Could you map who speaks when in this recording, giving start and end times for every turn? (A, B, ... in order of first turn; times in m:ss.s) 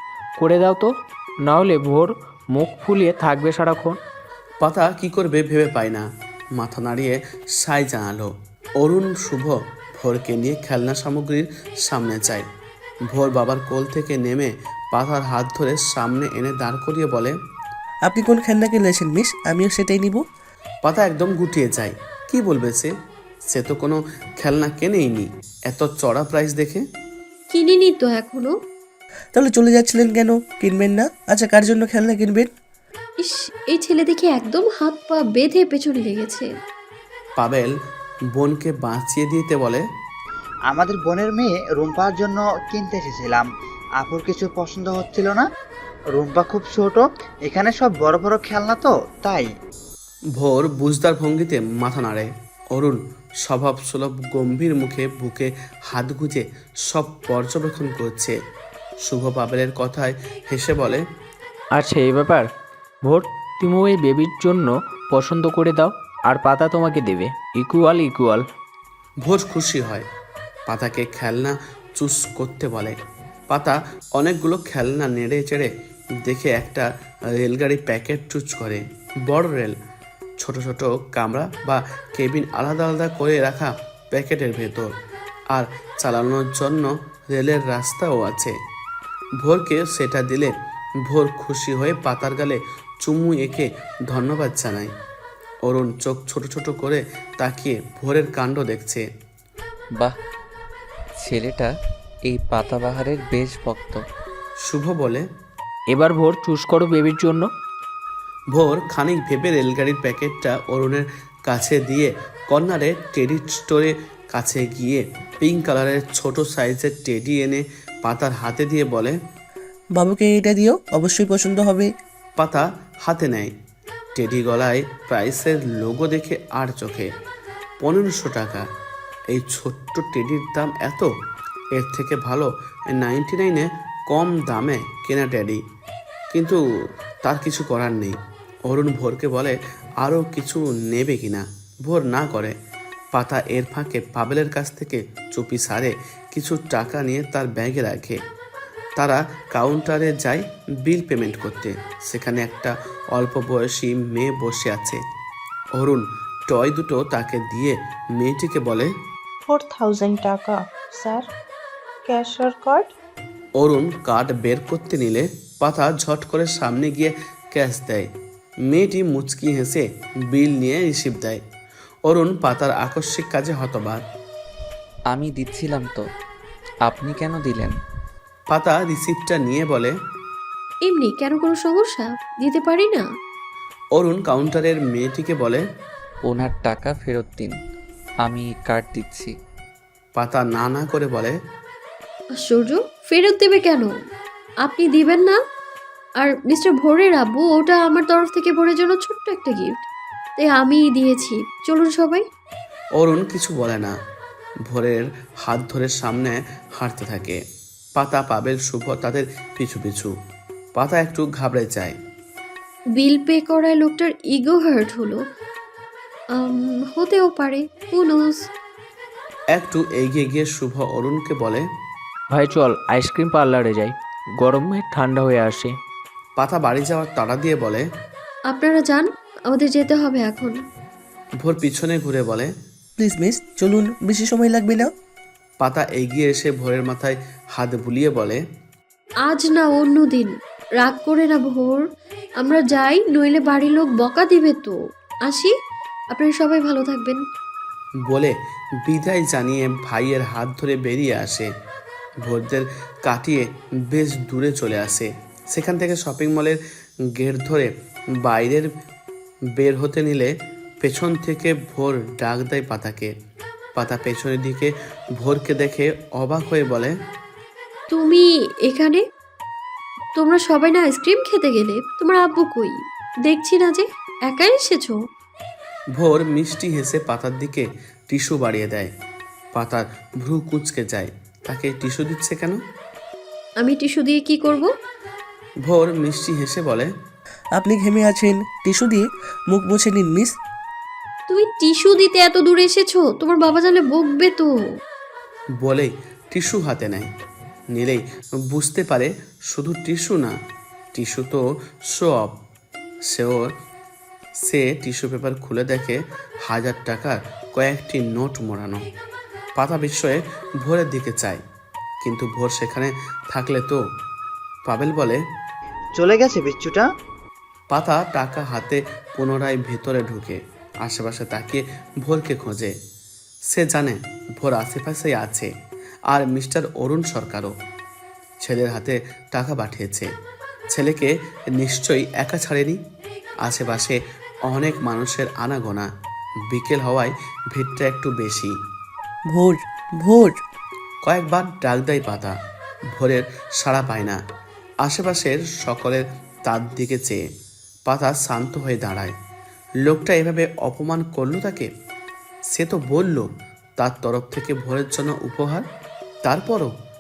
0:00.4-0:00.9 A
0:01.4-0:04.0 A
0:04.6-0:12.5 B
0:13.1-0:17.4 B
0:18.0-0:20.2 C
0:20.8-0:22.9 B
0:23.5-0:26.8 B
0:27.5-0:28.6 D
0:29.3-0:32.5 C
0:33.2-0:36.5 D
0:37.4-0:37.8 B
0:38.3-0:39.8 B
0:40.7-0:43.5 E
0:44.0-0:45.4 E
0:46.1-0:49.5 E
0:50.4-0:58.4 B
0:59.0-1:01.0 B
1:01.7-1:02.5 A
1:03.0-1:08.5 A
1:09.2-1:10.1 B
1:10.7-1:13.0 B
1:13.5-1:19.8 B
1:20.4-1:25.0 B
1:25.5-1:28.6 B
1:29.4-1:34.9 B
1:35.6-1:39.1 B
1:41.2-1:41.7 F
1:42.3-1:44.0 F
1:44.6-1:45.3 B
1:45.9-1:47.5 A
1:48.5-1:59.2 B
2:00.0-2:01.9 C
2:02.4-2:03.5 B
2:04.2-2:07.1 B
2:07.8-2:08.7 B
2:09.3-2:11.1 B
2:11.7-2:15.6 B
2:16.3-2:16.6 B
2:17.2-2:22.6 B
2:23.1-2:28.2 B
2:29.0-2:35.0 B
2:35.7-2:38.9 B
2:39.5-2:41.3 G
2:42.0-2:42.9 G
2:43.6-2:48.1 B
2:48.7-2:51.4 B
2:52.0-2:54.0 B
2:55.1-2:56.0 F
2:56.8-2:57.8 F
2:58.5-3:00.0 B
3:00.9-3:03.0 D
3:03.9-3:05.6 B
3:06.2-3:07.6 F
3:08.2-3:09.3 F
3:10.2-3:11.4 B
3:12.4-3:13.9 D
3:14.6-3:15.4 D
3:16.2-3:19.8 D
3:20.4-3:22.2 D
3:23.0-3:24.0 B
3:24.7-3:27.4 B
3:28.0-3:30.1 B
3:30.8-3:32.0 B
3:33.0-3:35.2 D
3:36.3-3:38.5 D
3:39.5-3:41.7 B
3:42.3-3:45.8 A
3:46.4-3:47.9 B
3:48.5-3:50.6 D
3:51.4-3:52.5 B
3:53.0-3:54.9 C
3:55.6-3:58.4 B
3:59.2-4:01.9 D
4:02.4-4:05.5 D
4:06.1-4:07.2 D
4:08.0-4:11.5 B
4:12.2-4:16.6 B
4:17.1-4:18.7 B
4:19.6-4:23.1 B
4:23.8-4:27.0 B
4:27.9-4:29.0 D
4:30.2-4:35.0 D
4:35.9-4:38.9 B
4:39.5-4:42.6 B
4:43.6-4:44.7 D
4:45.6-4:46.9 B
4:47.5-4:50.4 C
4:51.3-4:54.6 D
4:55.6-4:57.1 B
4:57.7-5:00.4 B
5:00.9-5:02.4 B
5:03.1-5:03.6 B
5:04.4-5:08.8 B
5:09.6-5:11.4 B
5:12.0-5:13.8 B
5:14.7-5:15.2 B
5:16.0-5:16.9 E
5:17.7-5:22.8 B
5:23.5-5:25.5 B
5:26.1-5:27.6 B
5:28.4-5:30.1 B
5:30.7-5:32.8 B
5:33.4-5:35.9 B
5:36.5-5:38.6 B
5:39.3-5:40.4 C
5:41.0-5:42.4 B
5:42.9-5:44.2 B
5:44.8-5:47.2 B
5:47.9-5:49.2 B
5:49.8-5:51.7 B
5:52.5-5:55.7 B
5:56.2-5:56.7 B